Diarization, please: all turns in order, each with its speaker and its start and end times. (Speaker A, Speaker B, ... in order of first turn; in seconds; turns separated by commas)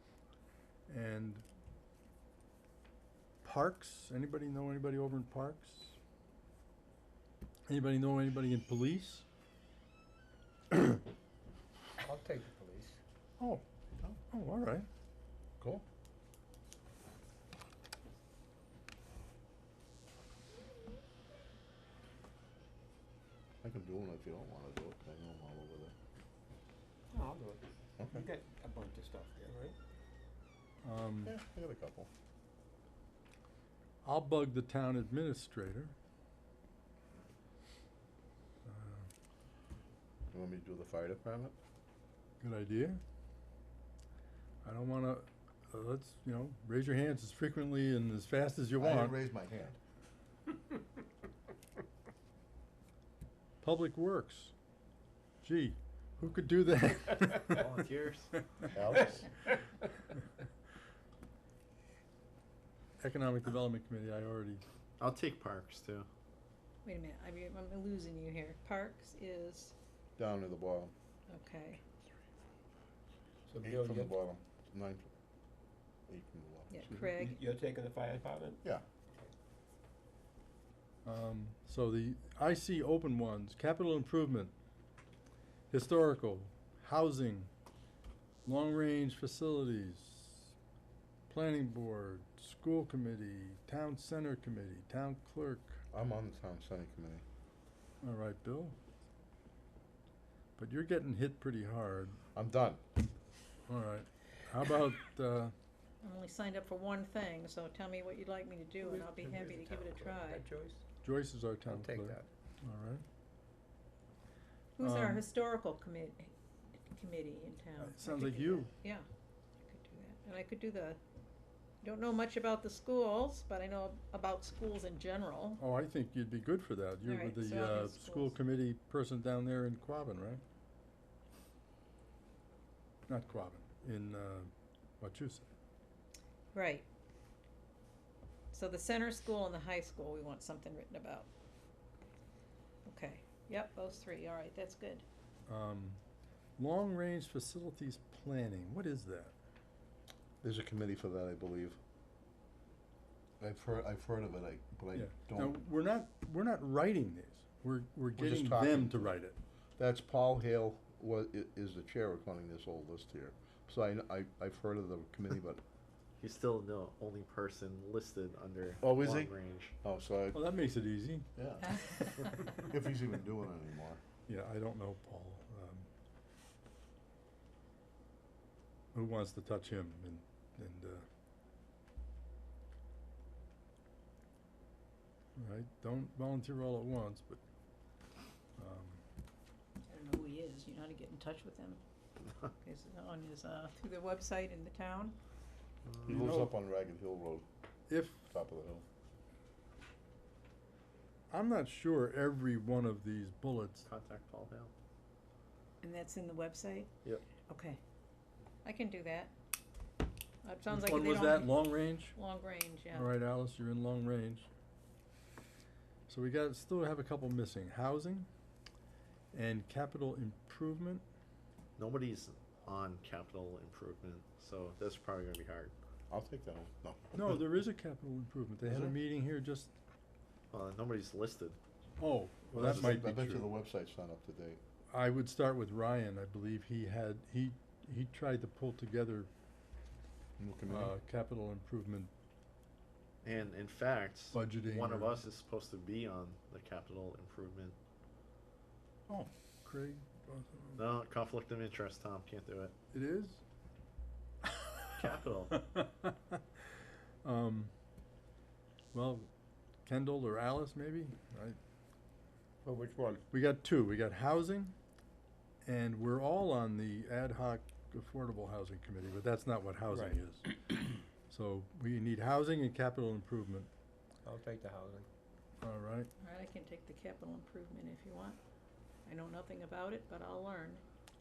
Speaker A: 0.9-1.4, Speaker A: 3.4-6.0, Speaker A: 7.7-9.2, Speaker B: 12.0-13.0, Speaker A: 14.3-14.9, Speaker C: 23.6-25.9, Speaker B: 27.1-29.8, Speaker C: 28.0-28.2, Speaker A: 30.8-31.3, Speaker C: 31.2-32.1, Speaker A: 34.0-35.9, Speaker A: 38.7-39.1, Speaker C: 40.3-41.5, Speaker A: 42.4-43.0, Speaker A: 44.6-49.1, Speaker C: 48.8-49.8, Speaker A: 53.6-54.5, Speaker A: 55.4-57.6, Speaker D: 57.3-58.3, Speaker C: 58.7-59.3, Speaker A: 63.0-64.6, Speaker D: 65.0-66.1, Speaker E: 66.8-69.7, Speaker C: 70.2-70.9, Speaker E: 71.3-71.8, Speaker B: 73.5-74.1, Speaker C: 73.6-75.1, Speaker C: 76.1-77.1, Speaker E: 76.7-77.4, Speaker B: 77.0-78.6, Speaker A: 81.0-84.5, Speaker A: 85.7-87.5, Speaker A: 88.4-90.5, Speaker A: 91.3-95.8, Speaker C: 95.9-97.2, Speaker A: 98.0-98.8, Speaker A: 100.6-102.2, Speaker C: 102.3-102.8, Speaker A: 103.7-105.5, Speaker E: 106.0-110.4, Speaker B: 108.8-110.8, Speaker A: 111.0-113.0, Speaker B: 111.7-112.3, Speaker E: 114.8-116.3, Speaker A: 114.8-115.2, Speaker E: 116.9-119.0, Speaker A: 117.8-118.7, Speaker E: 119.7-121.0, Speaker E: 121.8-125.6, Speaker A: 125.6-130.4, Speaker E: 127.0-128.3, Speaker A: 133.1-135.4, Speaker E: 136.5-136.8, Speaker E: 138.5-141.3, Speaker E: 142.9-145.0, Speaker A: 145.5-146.0, Speaker A: 146.6-149.3, Speaker C: 150.4-151.8, Speaker C: 153.4-155.6, Speaker A: 154.9-159.4, Speaker C: 158.2-159.1, Speaker C: 159.8-165.6, Speaker D: 166.2-169.7, Speaker C: 168.8-170.4, Speaker A: 170.3-172.1, Speaker C: 171.3-174.0, Speaker A: 174.3-175.9, Speaker A: 178.9-181.1, Speaker A: 185.4-187.4, Speaker A: 188.6-189.0, Speaker E: 189.9-191.8, Speaker E: 192.6-195.1, Speaker C: 196.0-197.4, Speaker A: 196.1-196.5, Speaker A: 197.9-198.3, Speaker C: 198.3-198.8, Speaker A: 201.3-203.9, Speaker D: 203.8-204.7, Speaker E: 205.8-206.9, Speaker E: 207.5-207.8, Speaker E: 208.6-209.3, Speaker E: 210.4-213.2, Speaker A: 210.7-212.2, Speaker A: 212.9-214.5, Speaker A: 216.1-218.3, Speaker A: 219.3-221.0, Speaker D: 221.8-225.7, Speaker C: 226.1-227.3, Speaker A: 227.1-229.7, Speaker C: 228.6-228.9, Speaker D: 230.5-231.6, Speaker A: 232.0-233.5, Speaker C: 232.5-234.6, Speaker D: 232.6-233.0, Speaker A: 234.9-239.3, Speaker C: 240.4-240.9, Speaker A: 240.7-242.1, Speaker D: 243.2-247.8, Speaker A: 244.3-245.2, Speaker A: 249.1-250.8, Speaker D: 250.8-252.7, Speaker A: 252.9-253.4, Speaker A: 254.4-256.4, Speaker D: 254.9-255.6, Speaker A: 257.2-257.7, Speaker A: 258.9-259.3, Speaker A: 259.9-261.6, Speaker B: 262.6-263.2, Speaker A: 263.3-264.7, Speaker A: 265.6-270.5, Speaker A: 271.3-273.7, Speaker B: 274.2-275.1, Speaker A: 275.6-276.1, Speaker E: 276.2-278.4, Speaker E: 279.1-280.8